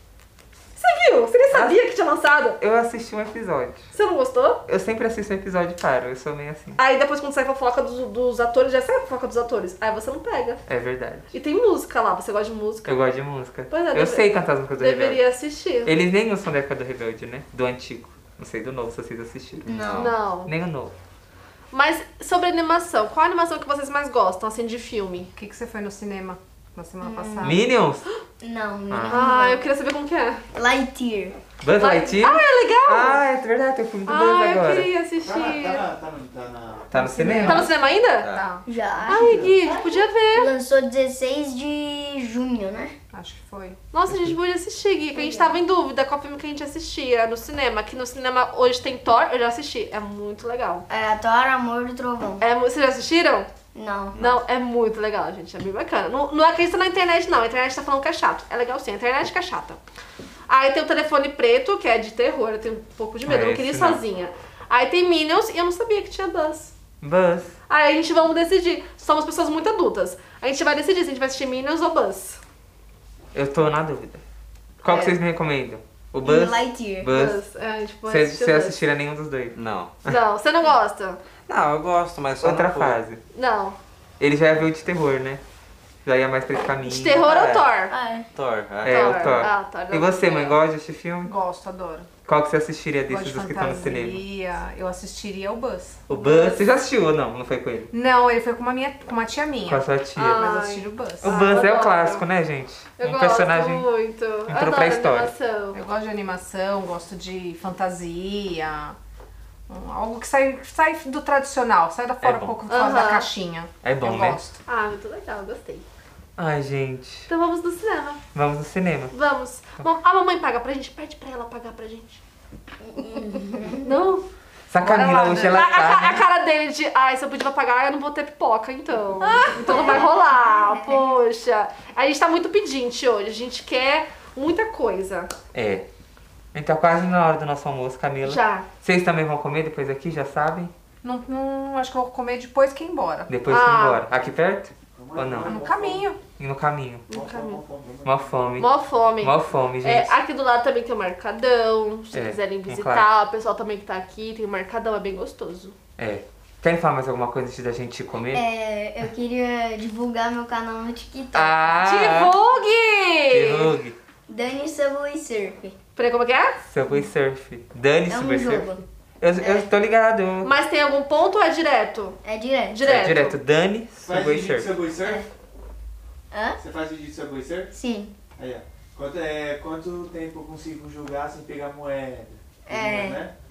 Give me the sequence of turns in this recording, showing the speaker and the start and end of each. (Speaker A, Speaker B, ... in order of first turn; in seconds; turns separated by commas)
Speaker A: 0.8-2.6, Speaker B: 1.5-1.8, Speaker B: 2.6-3.8, Speaker A: 3.9-4.6, Speaker B: 4.7-6.8, Speaker A: 6.8-10.6, Speaker B: 10.7-11.3, Speaker A: 11.3-13.0, Speaker B: 12.8-15.2, Speaker A: 13.7-15.9, Speaker B: 15.8-19.7, Speaker C: 19.7-20.1, Speaker D: 19.7-20.1, Speaker A: 19.9-20.5, Speaker B: 20.3-20.9, Speaker A: 21.7-25.3, Speaker E: 25.4-27.6, Speaker C: 27.0-27.6, Speaker B: 27.4-28.0, Speaker C: 28.4-29.7, Speaker B: 28.9-29.2, Speaker A: 29.1-30.4, Speaker C: 30.5-31.4, Speaker B: 31.6-34.9, Speaker A: 31.8-33.2, Speaker A: 34.1-35.9, Speaker F: 35.2-37.7, Speaker B: 36.9-37.6, Speaker E: 36.9-37.7, Speaker A: 37.4-38.3, Speaker D: 38.2-38.5, Speaker E: 38.3-38.6, Speaker C: 38.6-42.9, Speaker A: 39.1-40.5, Speaker F: 39.2-39.5, Speaker E: 43.1-43.8, Speaker A: 43.9-50.9, Speaker B: 44.1-44.4, Speaker C: 45.1-45.5, Speaker C: 50.9-52.5, Speaker A: 52.4-53.5, Speaker C: 53.7-54.2, Speaker D: 54.1-54.4, Speaker A: 54.2-59.8, Speaker A: 60.5-66.7, Speaker B: 63.2-64.0, Speaker B: 67.0-67.5, Speaker A: 67.7-72.4, Speaker B: 73.3-74.2, Speaker B: 74.8-77.4, Speaker C: 74.9-75.2, Speaker C: 76.2-77.1, Speaker A: 77.1-78.8, Speaker B: 78.1-80.2, Speaker D: 79.5-80.0, Speaker A: 80.1-81.2, Speaker D: 81.5-83.0, Speaker B: 82.4-83.2, Speaker A: 83.3-83.8, Speaker B: 84.2-85.4, Speaker B: 86.0-87.3, Speaker A: 86.8-87.9, Speaker D: 87.2-87.6, Speaker C: 87.9-88.3, Speaker D: 88.3-89.4, Speaker B: 88.8-91.3, Speaker A: 88.8-90.6, Speaker E: 91.2-92.1, Speaker B: 92.2-94.2, Speaker E: 93.1-96.0, Speaker B: 96.1-97.9, Speaker A: 96.1-96.6, Speaker E: 97.9-101.5, Speaker B: 99.7-100.4, Speaker A: 100.2-102.3, Speaker B: 101.2-103.9, Speaker A: 103.0-105.8, Speaker B: 104.5-105.3, Speaker E: 105.7-109.0, Speaker E: 109.7-114.6, Speaker B: 112.2-112.6, Speaker A: 112.7-113.3, Speaker B: 113.8-114.4, Speaker A: 114.7-115.8, Speaker B: 116.4-117.3, Speaker A: 117.3-118.2, Speaker B: 118.3-119.2, Speaker A: 119.1-122.2, Speaker C: 122.8-124.0, Speaker A: 123.8-124.2, Speaker B: 124.7-126.2, Speaker A: 124.8-135.3, Speaker C: 129.5-131.2, Speaker B: 135.5-135.9, Speaker B: 136.5-140.7, Speaker A: 138.2-138.7, Speaker E: 141.0-143.3, Speaker B: 143.3-145.6, Speaker A: 143.5-144.0, Speaker F: 144.9-146.1, Speaker E: 145.4-146.2, Speaker B: 146.4-147.1, Speaker A: 147.1-147.6, Speaker F: 147.1-148.4, Speaker B: 148.1-150.2, Speaker A: 148.6-155.8, Speaker B: 152.1-153.1, Speaker B: 156.0-158.4, Speaker C: 158.3-161.8, Speaker B: 161.3-162.4, Speaker A: 161.8-163.7, Speaker B: 163.3-164.0, Speaker C: 164.3-165.8, Speaker A: 166.0-166.6, Speaker B: 166.7-170.5, Speaker C: 168.1-168.8, Speaker C: 169.4-169.7, Speaker A: 170.4-172.2, Speaker C: 172.2-172.8, Speaker A: 172.7-173.4, Speaker B: 172.8-174.7, Speaker F: 174.0-175.3, Speaker C: 175.0-175.3, Speaker C: 176.3-176.6, Speaker F: 176.6-177.7, Speaker C: 177.7-178.2, Speaker F: 178.4-183.3, Speaker C: 182.7-183.3